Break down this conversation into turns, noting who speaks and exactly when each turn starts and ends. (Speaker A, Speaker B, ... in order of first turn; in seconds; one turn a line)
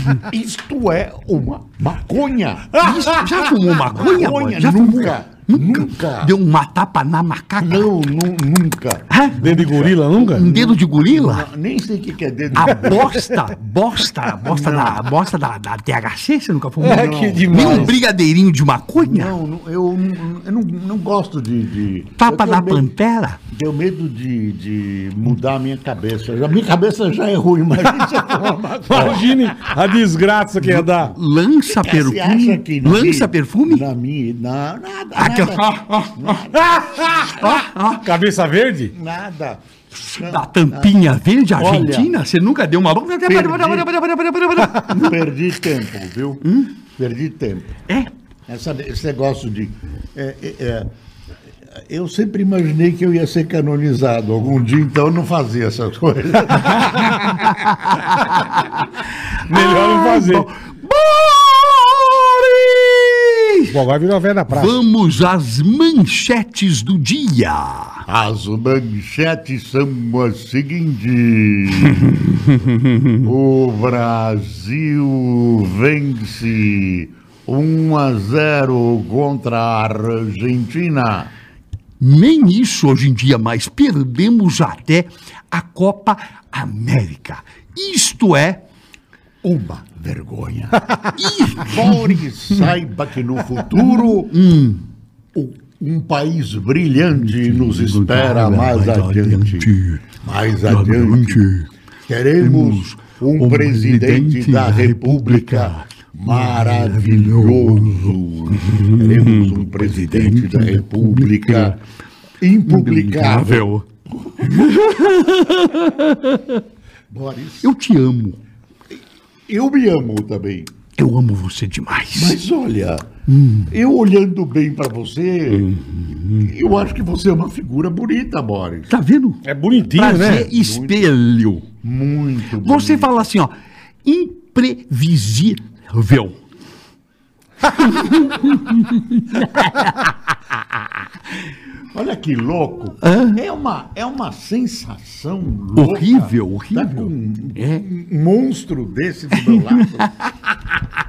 Speaker A: 0.2-2.9
Speaker B: 2.8-5.1
Speaker C: 2.9-3.3
Speaker A: 3.8-6.3
Speaker B: 6.2-7.8
Speaker A: 7.6-13.3
Speaker C: 9.3-10.5
Speaker B: 10.4-11.4
Speaker B: 12.6-19.3
Speaker A: 14.4-15.0
Speaker C: 16.8-18.0
Speaker A: 16.8-18.0
Speaker A: 19.0-22.9
Speaker B: 22.2-23.4
Speaker A: 23.5-29.6
Speaker C: 28.9-31.1
Speaker B: 30.7-33.8
Speaker A: 31.6-37.6
Speaker B: 35.2-36.1
Speaker C: 36.6-37.3
Speaker B: 37.4-37.9
Speaker C: 38.0-38.9
Speaker A: 38.9-42.1
Speaker B: 40.1-45.1
Speaker A: 43.2-43.9
Speaker A: 44.8-47.8
Speaker A: 48.5-50.9
Speaker A: 51.7-57.5
Speaker C: 59.5-60.5
Speaker B: 59.5-63.6
Speaker C: 63.7-64.8
Speaker B: 64.5-68.0
Speaker A: 68.1-72.1
Speaker A: 73.2-81.3
Speaker B: 82.0-88.6
Speaker A: 89.4-90.9
Speaker B: 91.2-92.0
Speaker A: 91.5-94.4
Speaker B: 93.8-94.8
Speaker A: 95.3-101.5
Speaker B: 97.3-100.0
Speaker B: 100.7-101.7
Speaker A: 102.0-111.8
Speaker B: 102.4-108.1
Speaker B: 108.6-111.8
Speaker A: 112.4-114.7
Speaker B: 112.7-113.8
Speaker B: 114.5-116.5
Speaker A: 117.1-117.7
Speaker B: 117.6-118.4
Speaker A: 118.9-120.7
Speaker B: 121.0-122.4
Speaker A: 122.1-123.1
Speaker B: 123.3-123.7
Speaker A: 123.7-125.7
Speaker B: 125.6-126.5
Speaker A: 126.4-128.9
Speaker B: 128.9-129.4
Speaker C: 129.4-130.5
Speaker B: 129.9-131.6
Speaker A: 130.1-131.1
Speaker A: 131.8-133.2
Speaker B: 132.6-133.5
Speaker B: 134.1-136.3
Speaker B: 137.8-139.9
Speaker A: 141.9-150.1
Speaker B: 143.1-143.4
Speaker B: 145.8-147.8
Speaker B: 149.5-149.9